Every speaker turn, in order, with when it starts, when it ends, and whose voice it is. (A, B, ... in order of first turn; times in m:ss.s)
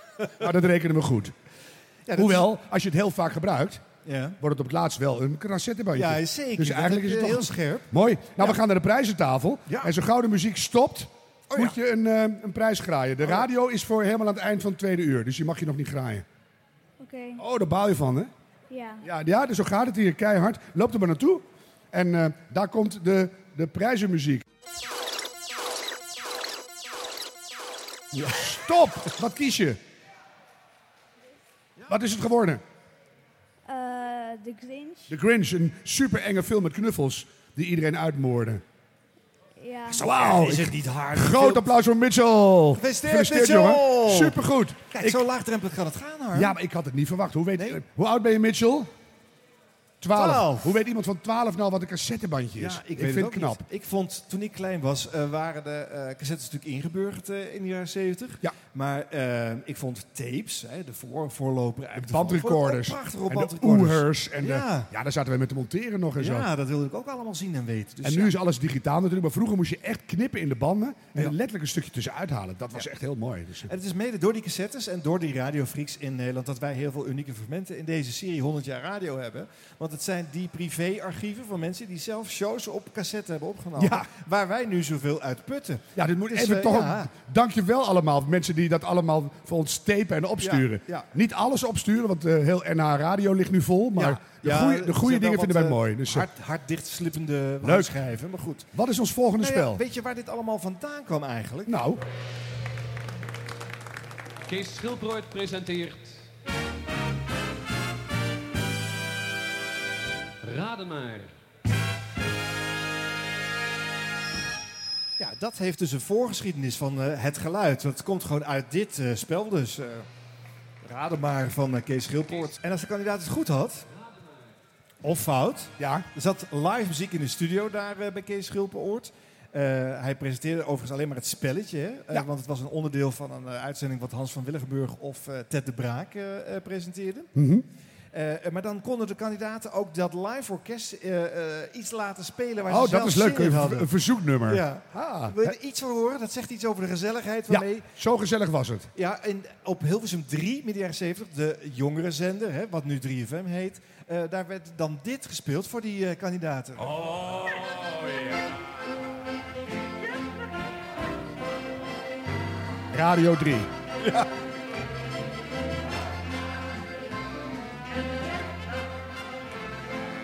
0:00.4-0:01.3 A
0:02.1-0:02.5 B
0:02.2-0:03.8 A
0:04.0-0:04.4 B
0:04.4-0:16.2 A
0:05.9-0:08.6 B
0:11.5-0:11.8 B
0:17.0-0:17.4 C
0:17.4-0:18.3 A
0:18.7-0:19.0 C
0:19.0-0:24.4 A
0:28.1-0:29.8 A
0:31.9-0:32.6 A
0:33.6-0:35.1 C
0:35.1-0:38.6 A
0:39.6-0:40.0 C
0:39.9-0:41.7 B
0:40.0-0:45.2 A
0:42.8-0:44.4 B
0:44.9-0:46.5 B
0:46.3-0:48.9 A
0:50.0-0:53.6 A
0:50.1-0:50.7 B
0:52.6-1:04.9 B
1:01.9-1:06.5 A
1:06.2-1:08.3 B
1:08.0-1:13.7 A
1:13.7-1:27.1 B
1:23.8-1:24.1 A
1:26.0-1:36.3 A
1:30.4-1:31.0 B
1:33.9-1:38.7 B
1:37.6-1:37.9 A
1:38.7-1:39.8 A
1:39.4-1:41.7 B
1:41.7-1:42.0 A
1:44.5-1:46.2 D
1:50.4-1:51.3 D
1:55.2-2:00.1 B
2:00.8-2:03.9 B
2:05.0-2:17.3 B
2:05.8-2:06.0 A
2:17.3-2:17.6 A
2:18.1-2:23.9 B
2:22.7-2:25.5 A
2:24.5-2:27.9 B
2:27.5-2:28.9 A
2:28.9-2:37.2 B
2:42.9-2:43.7 A